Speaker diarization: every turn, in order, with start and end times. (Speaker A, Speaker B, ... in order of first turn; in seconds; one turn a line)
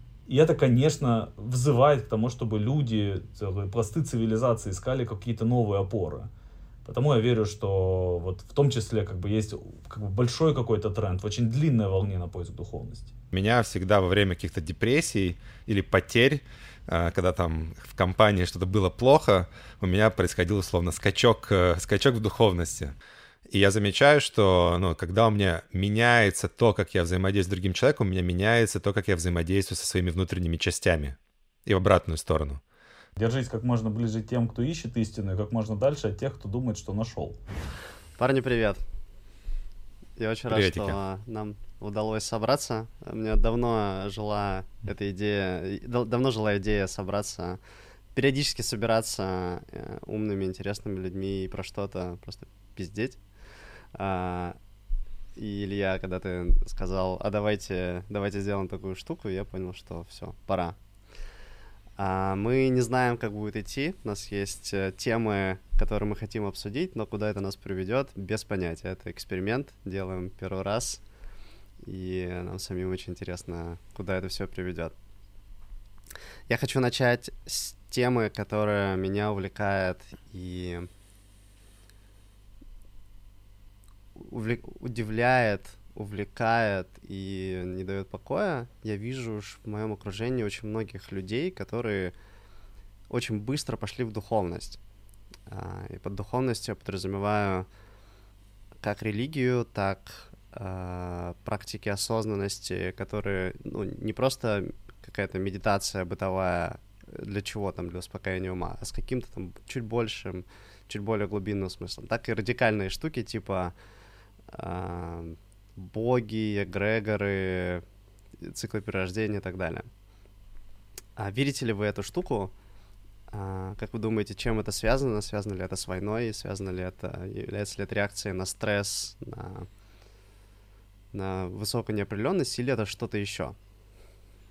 Speaker A: 0.3-6.3
Speaker A: 6.8-13.1
Speaker B: 13.3-22.9
Speaker B: 23.5-32.6
Speaker A: 33.2-37.4
Speaker C: 38.2-38.8
Speaker C: 40.2-47.6
Speaker B: 40.5-41.0
Speaker C: 48.1-53.2
Speaker C: 54.0-54.6
Speaker C: 55.4-60.8
Speaker C: 62.0-71.0
Speaker C: 71.8-74.9
Speaker C: 76.5-80.9
Speaker C: 84.2-92.1
Speaker C: 93.1-94.8
Speaker C: 95.5-97.7
Speaker C: 98.8-113.8
Speaker C: 114.5-117.8
Speaker C: 118.4-119.9
Speaker C: 121.2-122.5
Speaker C: 123.3-129.7
Speaker C: 131.1-133.6